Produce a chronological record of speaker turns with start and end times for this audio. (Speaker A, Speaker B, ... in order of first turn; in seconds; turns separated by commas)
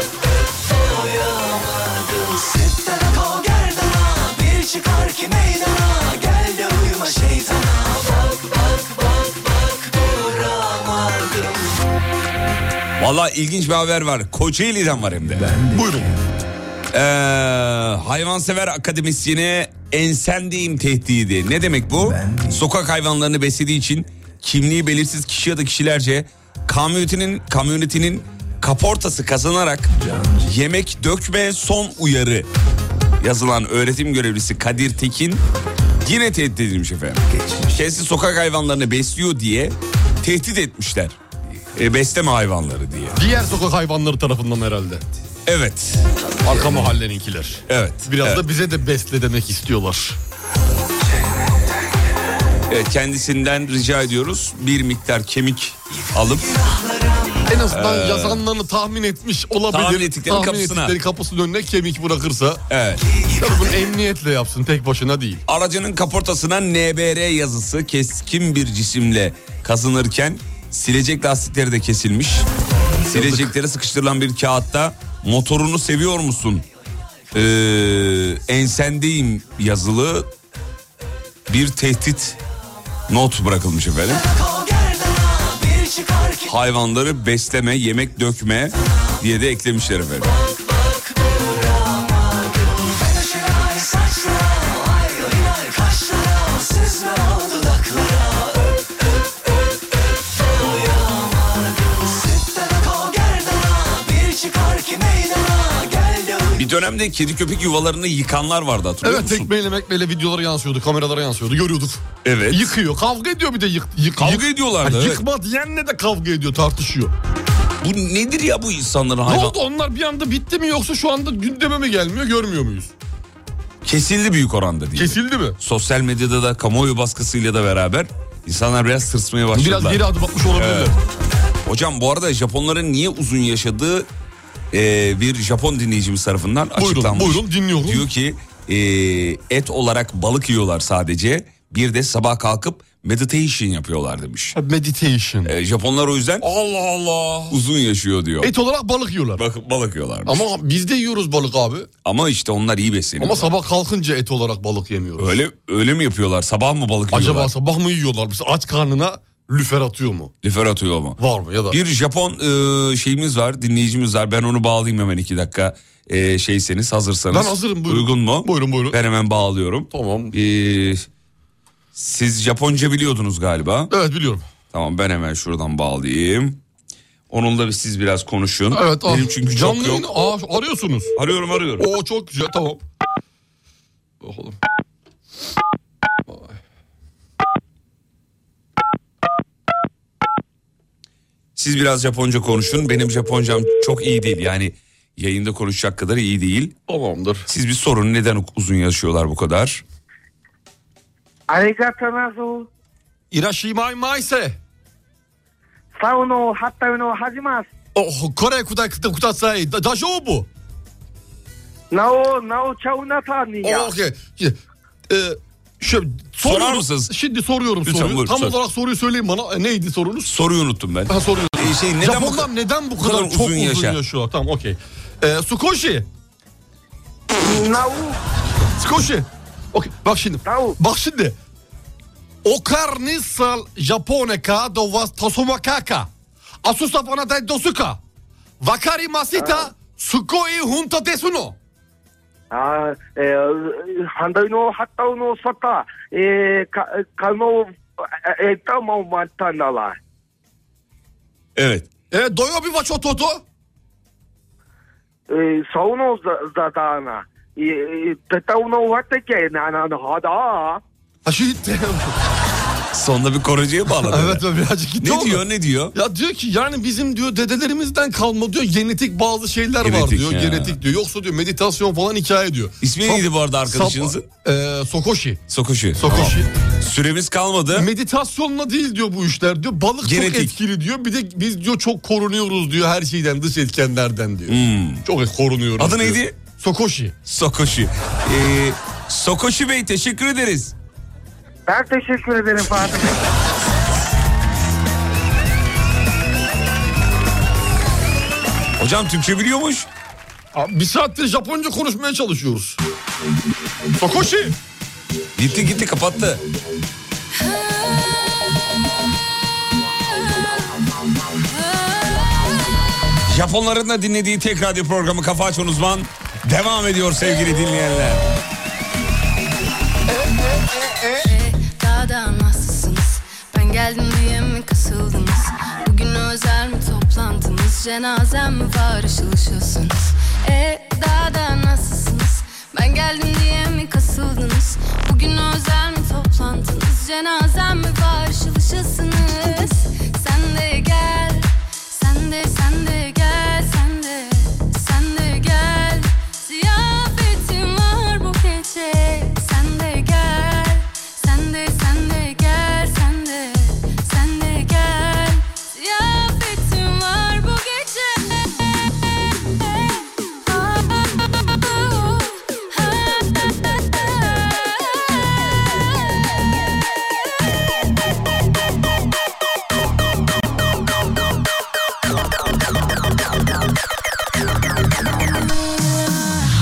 Speaker A: 0.5-11.8, Speaker B: 13.0-15.6, Speaker C: 15.7-16.2, Speaker B: 16.9-32.5, Speaker B: 33.2-35.4, Speaker B: 36.0-41.2, Speaker B: 41.7-43.2, Speaker C: 43.1-45.0, Speaker B: 45.5-46.9, Speaker C: 46.4-50.2, Speaker B: 47.7-48.4, Speaker B: 52.7-56.5, Speaker A: 56.3-57.6, Speaker C: 57.5-62.6, Speaker B: 57.7-58.4, Speaker B: 59.7-61.0, Speaker B: 62.7-63.0, Speaker A: 63.0-63.9, Speaker C: 63.4-65.4, Speaker B: 65.5-72.5, Speaker B: 73.1-76.6, Speaker C: 73.1-73.5, Speaker B: 77.3-80.3, Speaker B: 81.5-82.4, Speaker B: 83.1-84.2, Speaker A: 84.1-86.5, Speaker B: 86.5-90.3, Speaker A: 90.2-106.7, Speaker B: 106.5-109.5, Speaker C: 109.0-117.1, Speaker B: 112.2-112.7, Speaker B: 114.2-115.2, Speaker B: 117.8-119.5, Speaker C: 119.2-122.9, Speaker B: 123.8-130.9, Speaker C: 124.9-125.6, Speaker C: 129.5-130.9, Speaker B: 131.6-134.1, Speaker B: 134.7-144.6, Speaker C: 136.8-138.1, Speaker C: 144.5-145.5, Speaker B: 145.4-146.4, Speaker C: 146.4-147.6, Speaker B: 147.5-148.5, Speaker C: 148.4-149.4, Speaker B: 149.3-150.4, Speaker C: 150.2-151.9, Speaker B: 152.0-153.5, Speaker C: 153.2-155.4, Speaker B: 155.2-157.5, Speaker C: 157.1-160.3, Speaker B: 160.4-161.2, Speaker C: 161.2-161.8, Speaker B: 161.7-171.1, Speaker C: 167.3-169.0, Speaker C: 169.9-170.3, Speaker B: 171.9-173.9, Speaker C: 173.9-174.4, Speaker B: 174.7-176.6, Speaker B: 177.3-180.3, Speaker C: 178.7-181.1, Speaker B: 181.2-181.9, Speaker C: 181.8-182.8, Speaker C: 184.2-184.6, Speaker B: 191.6-196.7, Speaker C: 196.9-197.5, Speaker B: 197.5-199.8, Speaker D: 201.5-202.7, Speaker C: 203.3-204.6, Speaker D: 206.0-207.7, Speaker C: 207.9-210.5, Speaker D: 211.9-213.9, Speaker C: 213.6-214.6, Speaker C: 215.1-220.3, Speaker B: 216.4-217.1, Speaker B: 217.8-218.6, Speaker B: 220.2-224.0, Speaker C: 221.1-226.1, Speaker D: 227.4-228.2, Speaker C: 228.8-231.3, Speaker D: 230.4-230.8, Speaker C: 232.4-236.1, Speaker C: 236.6-238.0, Speaker C: 238.6-241.6, Speaker D: 239.4-239.6, Speaker D: 242.5-250.0, Speaker B: 251.6-251.9, Speaker C: 252.1-253.4, Speaker D: 255.3-260.8, Speaker C: 261.2-262.1, Speaker B: 262.9-264.4, Speaker C: 263.9-275.4, Speaker B: 265.0-265.9, Speaker B: 269.8-270.8, Speaker B: 272.8-274.3, Speaker B: 275.5-277.9, Speaker C: 276.0-276.5, Speaker C: 277.7-287.2, Speaker B: 280.0-280.5, Speaker B: 284.5-285.0, Speaker B: 285.8-286.4, Speaker B: 287.2-290.7, Speaker D: 291.7-293.2, Speaker B: 298.8-299.9, Speaker C: 300.5-302.8, Speaker C: 304.0-304.6, Speaker B: 305.4-306.4, Speaker E: 307.3-308.3, Speaker E: 310.3-312.6, Speaker B: 313.3-318.2, Speaker E: 321.2-365.3, Speaker E: 376.0-376.3